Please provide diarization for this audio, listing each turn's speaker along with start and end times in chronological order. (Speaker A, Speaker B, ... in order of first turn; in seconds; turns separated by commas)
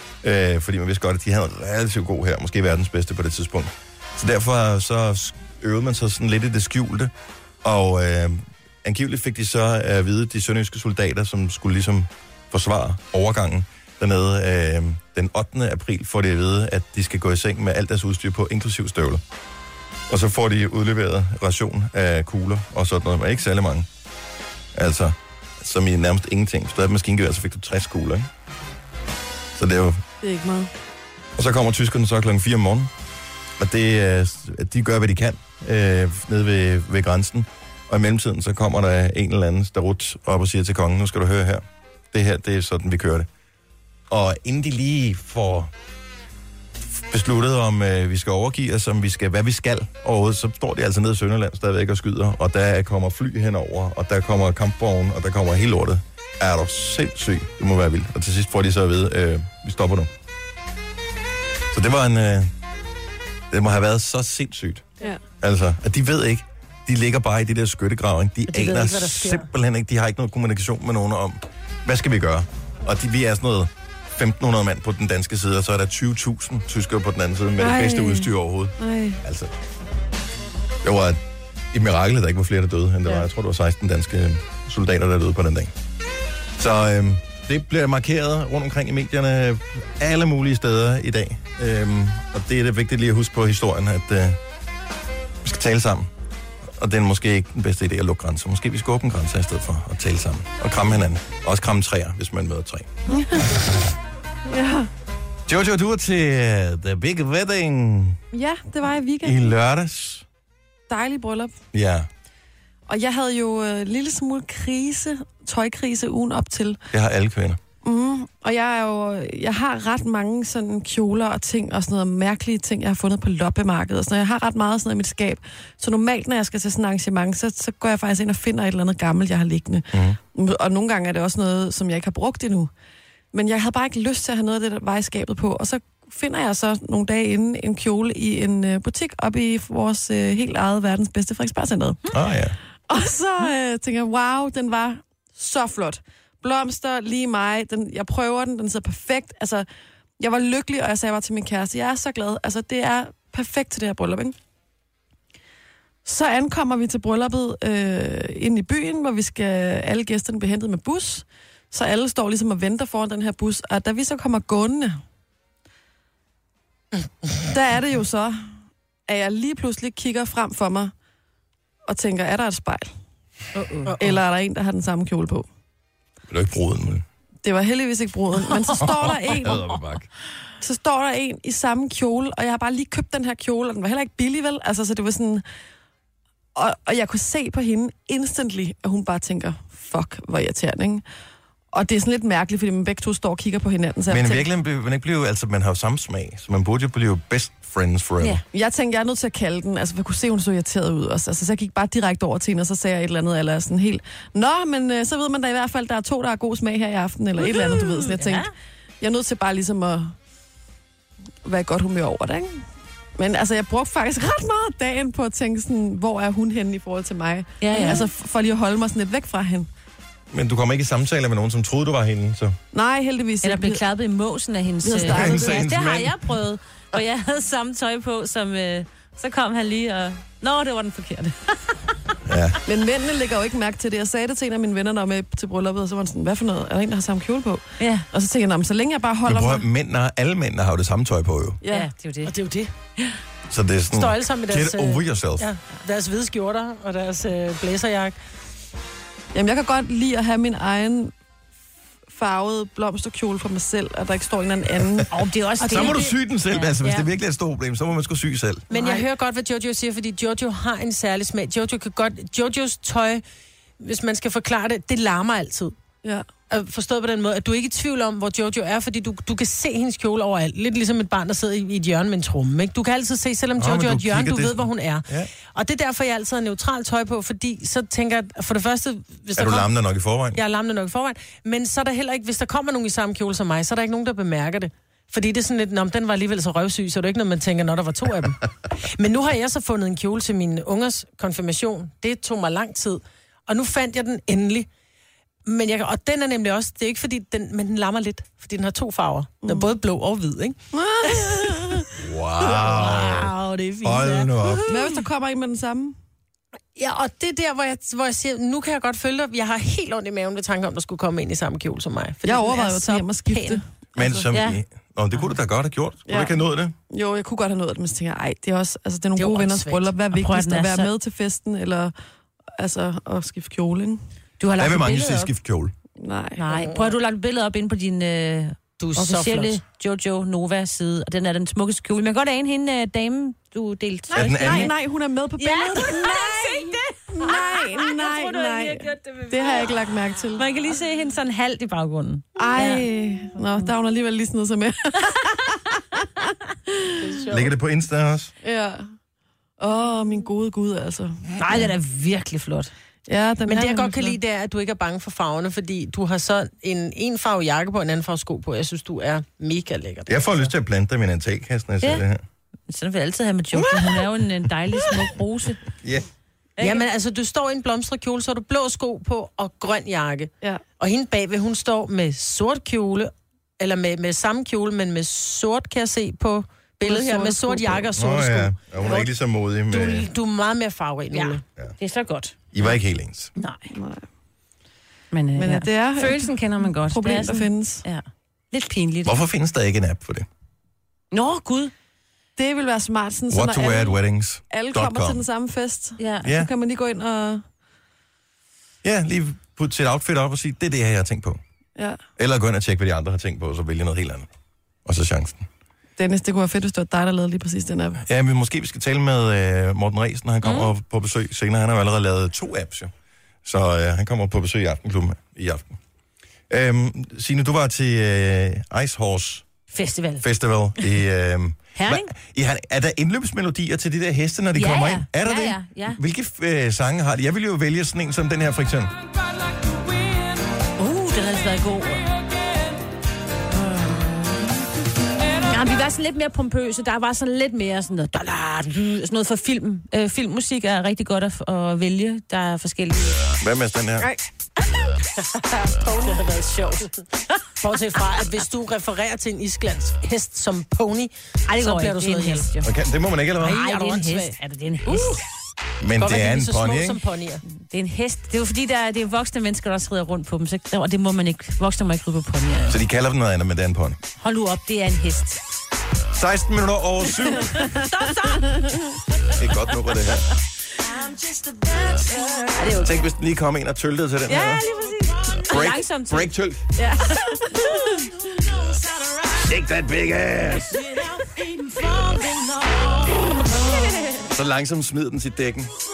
Speaker A: 0.2-7.1, Speaker A: 7.6-19.2, Speaker A: 20.1-23.9, Speaker A: 24.7-28.3, Speaker A: 29.5-30.0, Speaker B: 30.2-30.7, Speaker A: 31.4-32.9, Speaker A: 33.6-43.3, Speaker A: 44.1-45.7, Speaker A: 46.9-60.1, Speaker A: 61.7-62.5, Speaker A: 63.5-64.9, Speaker A: 65.4-79.5, Speaker C: 68.5-69.5, Speaker B: 77.6-79.2, Speaker A: 80.8-81.2, Speaker A: 81.7-85.7, Speaker A: 86.6-94.4, Speaker A: 95.4-96.1, Speaker A: 96.6-103.1, Speaker B: 103.1-103.7, Speaker B: 104.5-104.9, Speaker A: 105.5-108.2, Speaker B: 108.3-109.5, Speaker A: 109.2-110.2, Speaker B: 110.9-111.5, Speaker A: 111.7-112.1, Speaker B: 112.9-116.8, Speaker A: 116.9-117.6, Speaker B: 117.8-132.7, Speaker A: 129.9-130.2, Speaker B: 133.3-142.1, Speaker A: 142.1-142.6, Speaker B: 142.9-149.7, Speaker B: 150.2-154.3, Speaker B: 156.0-165.0, Speaker B: 167.5-168.5, Speaker B: 169.1-170.9, Speaker B: 171.9-172.9, Speaker D: 173.5-173.9, Speaker C: 173.8-174.2, Speaker B: 174.0-175.4, Speaker A: 176.3-177.0, Speaker B: 177.4-179.6, Speaker A: 178.7-180.1, Speaker B: 180.6-185.4, Speaker B: 186.5-191.0, Speaker B: 191.7-194.4, Speaker A: 194.1-198.4, Speaker B: 198.5-208.5, Speaker D: 207.4-208.5, Speaker B: 209.0-210.1, Speaker B: 211.4-212.6, Speaker B: 213.2-219.7, Speaker D: 217.6-218.0, Speaker A: 220.3-222.6, Speaker B: 222.7-223.8, Speaker D: 223.4-231.7, Speaker B: 224.8-225.6, Speaker A: 225.1-226.2, Speaker A: 232.2-232.6, Speaker B: 232.6-239.7, Speaker D: 237.8-238.1, Speaker A: 239.2-241.6, Speaker B: 241.6-241.9, Speaker D: 241.7-242.3, Speaker C: 242.2-242.7, Speaker A: 243.5-245.5, Speaker C: 243.9-248.1, Speaker B: 249.3-251.1, Speaker B: 252.1-255.1, Speaker D: 255.1-257.1, Speaker C: 255.6-256.1, Speaker A: 255.7-258.6, Speaker C: 258.7-263.2, Speaker C: 263.8-265.7, Speaker C: 266.5-279.7, Speaker A: 273.6-275.3, Speaker A: 279.4-280.4, Speaker C: 280.3-294.7, Speaker C: 295.4-301.8, Speaker B: 299.4-299.7, Speaker B: 300.7-301.9, Speaker A: 301.9-304.7, Speaker C: 302.4-304.8, Speaker B: 304.7-305.9, Speaker C: 306.8-313.6, Speaker B: 312.2-313.6, Speaker A: 313.9-316.7, Speaker D: 314.2-314.6, Speaker B: 316.1-316.4, Speaker B: 316.9-321.9, Speaker C: 319.1-319.9, Speaker D: 320.1-320.9, Speaker B: 322.6-324.0, Speaker D: 324.4-325.3, Speaker A: 324.6-325.7, Speaker B: 326.0-326.6, Speaker D: 326.4-334.7, Speaker C: 328.8-329.6, Speaker B: 334.1-340.4, Speaker A: 334.1-334.7, Speaker D: 335.4-339.7, Speaker D: 340.4-342.8, Speaker B: 342.4-345.6, Speaker B: 346.2-346.9, Speaker C: 347.0-347.5, Speaker A: 347.3-348.3, Speaker B: 348.4-348.9, Speaker B: 349.6-351.1, Speaker D: 351.4-352.7, Speaker B: 353.1-354.1, Speaker C: 353.5-360.4, Speaker A: 360.1-362.2, Speaker D: 362.7-365.6, Speaker D: 366.6-366.8, Speaker C: 366.6-379.1, Speaker B: 376.8-377.9, Speaker A: 377.9-380.1, Speaker C: 379.7-381.4, Speaker D: 381.1-382.7, Speaker A: 382.5-383.3, Speaker D: 383.4-383.7, Speaker B: 383.7-384.0, Speaker D: 385.1-389.2, Speaker B: 385.4-387.8, Speaker A: 389.0-390.3, Speaker D: 391.1-391.7, Speaker B: 392.4-394.0, Speaker A: 393.3-395.2, Speaker B: 394.5-397.4, Speaker D: 396.0-396.3, Speaker A: 396.2-396.5, Speaker A: 398.8-401.4, Speaker A: 402.2-404.3, Speaker A: 404.9-405.5, Speaker B: 406.0-408.0, Speaker A: 408.0-412.9, Speaker A: 413.4-415.7, Speaker A: 416.5-419.4, Speaker D: 419.7-420.2, Speaker A: 420.2-428.9, Speaker D: 421.8-422.1, Speaker D: 424.5-426.0, Speaker D: 430.8-432.1, Speaker D: 433.5-434.5, Speaker D: 435.4-443.3, Speaker A: 443.4-444.1, Speaker C: 445.2-452.5, Speaker D: 451.5-452.7, Speaker A: 452.6-453.6, Speaker C: 453.4-454.4, Speaker D: 453.4-455.2, Speaker C: 454.9-455.2, Speaker A: 455.8-457.0, Speaker C: 456.0-457.4, Speaker D: 457.5-462.8, Speaker A: 462.7-464.0, Speaker D: 464.2-465.4, Speaker A: 466.1-467.7, Speaker D: 467.4-468.7, Speaker A: 469.3-470.3, Speaker D: 472.5-473.0, Speaker A: 472.8-474.6, Speaker D: 474.2-478.0, Speaker A: 475.4-476.6, Speaker A: 479.3-480.8, Speaker D: 480.9-481.3, Speaker D: 481.9-484.3, Speaker A: 484.3-485.7